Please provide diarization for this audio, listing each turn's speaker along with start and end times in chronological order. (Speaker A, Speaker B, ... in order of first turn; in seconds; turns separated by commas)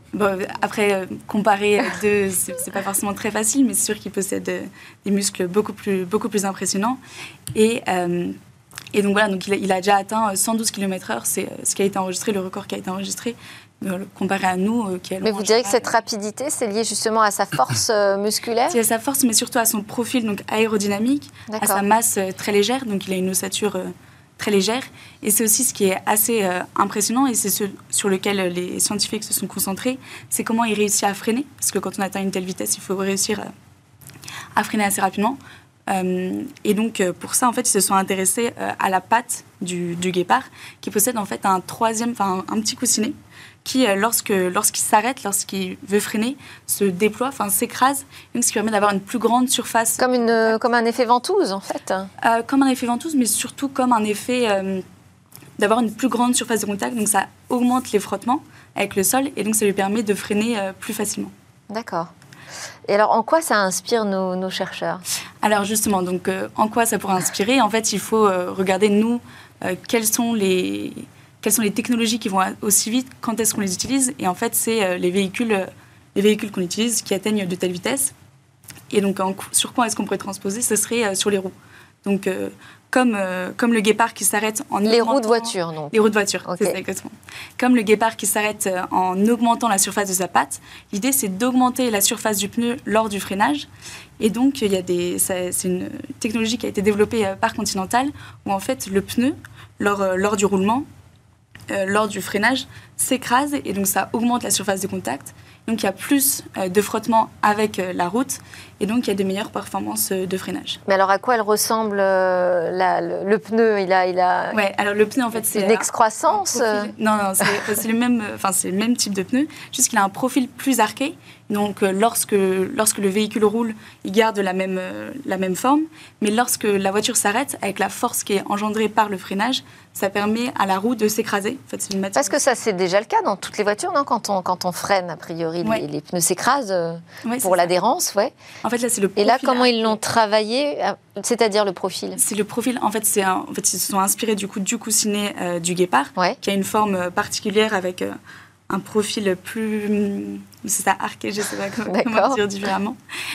Speaker A: 0.1-7.0, Speaker A: 7.5-8.4, Speaker A: 8.9-15.9, Speaker B: 15.2-18.8, Speaker A: 18.7-33.5, Speaker B: 21.5-21.8, Speaker A: 34.5-50.6, Speaker B: 50.0-52.1, Speaker A: 52.2-54.8, Speaker A: 55.6-61.3, Speaker B: 61.7-62.1, Speaker B: 62.9-65.0, Speaker A: 65.4-78.1, Speaker A: 78.9-81.5, Speaker A: 82.0-93.7, Speaker B: 84.8-85.9, Speaker B: 86.5-86.8, Speaker A: 94.2-100.9, Speaker A: 101.7-110.8, Speaker B: 110.9-114.6, Speaker A: 114.5-132.4, Speaker B: 115.3-116.9, Speaker B: 132.2-138.3, Speaker A: 137.2-137.7, Speaker A: 138.6-140.0, Speaker B: 139.2-142.2, Speaker A: 142.2-148.2, Speaker A: 148.7-153.0, Speaker B: 151.9-152.4